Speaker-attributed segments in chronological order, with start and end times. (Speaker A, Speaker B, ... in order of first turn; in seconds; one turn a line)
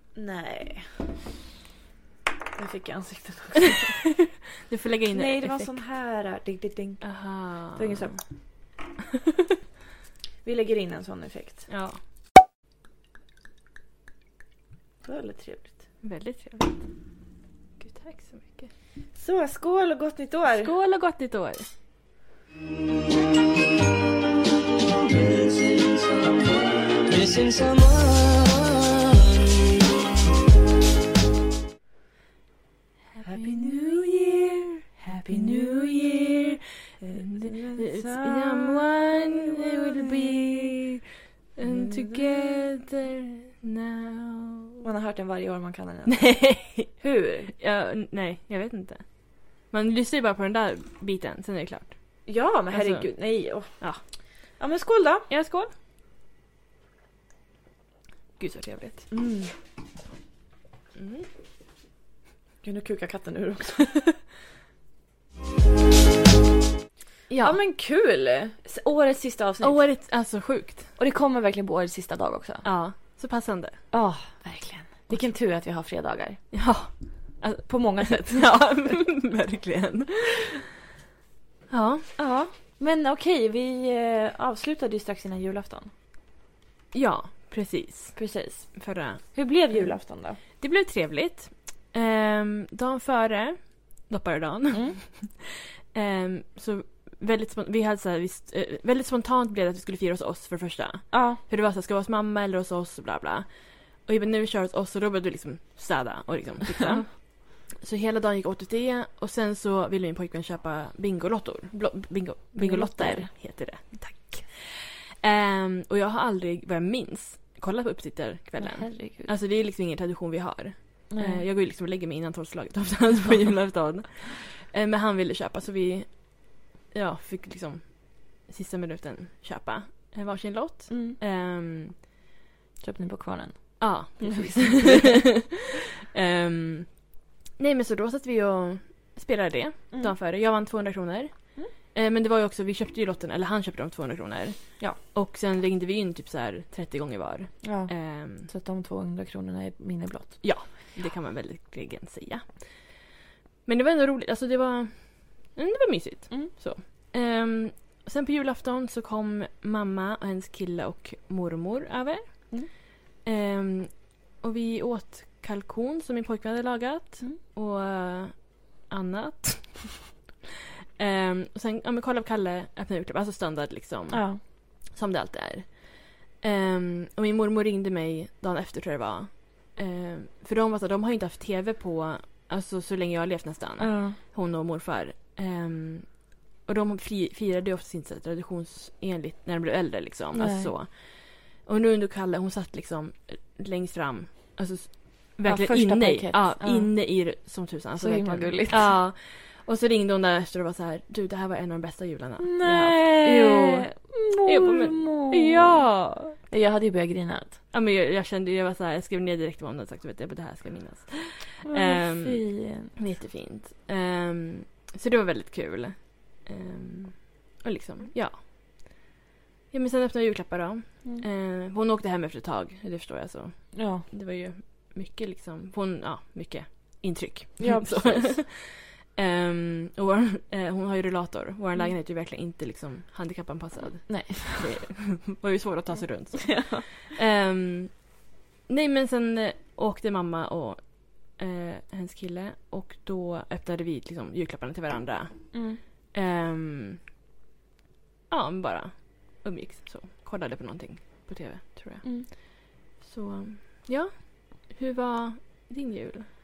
Speaker A: 0.1-1.0
Speaker A: 2.6-4.0
Speaker B: 4.6-5.8
Speaker A: 5.1-8.2
Speaker B: 7.0-8.2
Speaker A: 10.4-11.7
Speaker B: 11.7-12.0
Speaker A: 15.1-15.8
Speaker B: 16.0-16.8
Speaker B: 17.8-18.7
Speaker A: 19.1-20.7
Speaker B: 20.5-21.7
Speaker C: 24.9-30.0
Speaker B: 33.1-41.0
Speaker A: 33.3-33.7
Speaker A: 35.2-36.4
Speaker A: 37.1-40.7
Speaker B: 41.6-44.8
Speaker A: 41.7-42.2
Speaker A: 44.8-47.5
Speaker B: 46.1-46.9
Speaker B: 47.5-54.0
Speaker A: 52.3-53.8
Speaker A: 54.6-55.3
Speaker B: 55.3-55.7
Speaker B: 58.4-59.1
Speaker A: 59.1-59.5
Speaker B: 61.0-61.3
Speaker A: 62.6-63.9
Speaker B: 67.3-67.6
Speaker A: 67.4-70.0
Speaker B: 69.6-70.9
Speaker A: 71.0-73.2
Speaker B: 72.6-73.8
Speaker A: 73.9-76.5
Speaker B: 76.5-80.6
Speaker A: 77.6-78.7
Speaker B: 81.7-82.1
Speaker A: 82.2-85.9
Speaker B: 86.9-132.0
Speaker A: 88.2-90.4
Speaker A: 94.7-95.0
Speaker A: 101.1-101.4
Speaker A: 112.6-113.3
Speaker A: 118.5-119.3
Speaker A: 121.1-121.4
Speaker A: 130.9-131.2
Speaker A: 132.8-135.2
Speaker B: 133.8-135.6
Speaker B: 136.1-137.1
Speaker B: 137.6-148.5
Speaker A: 139.9-140.2
Speaker A: 147.6-150.4
Speaker B: 150.4-153.0
Speaker B: 153.7-170.0
Speaker B: 171.0-206.4
Speaker A: 174.1-174.4
Speaker A: 183.8-184.2
Speaker A: 190.3-190.7
Speaker A: 195.4-197.4
Speaker A: 198.0-199.0
Speaker A: 202.4-207.6
Speaker B: 207.7-218.4
Speaker A: 211.7-212.9
Speaker B: 219.7-247.1
Speaker A: 223.7-224.1
Speaker A: 227.6-228.4
Speaker A: 234.1-234.7
Speaker A: 236.5-236.8
Speaker A: 245.5-245.8
Speaker B: 248.3-256.3
Speaker A: 252.0-252.3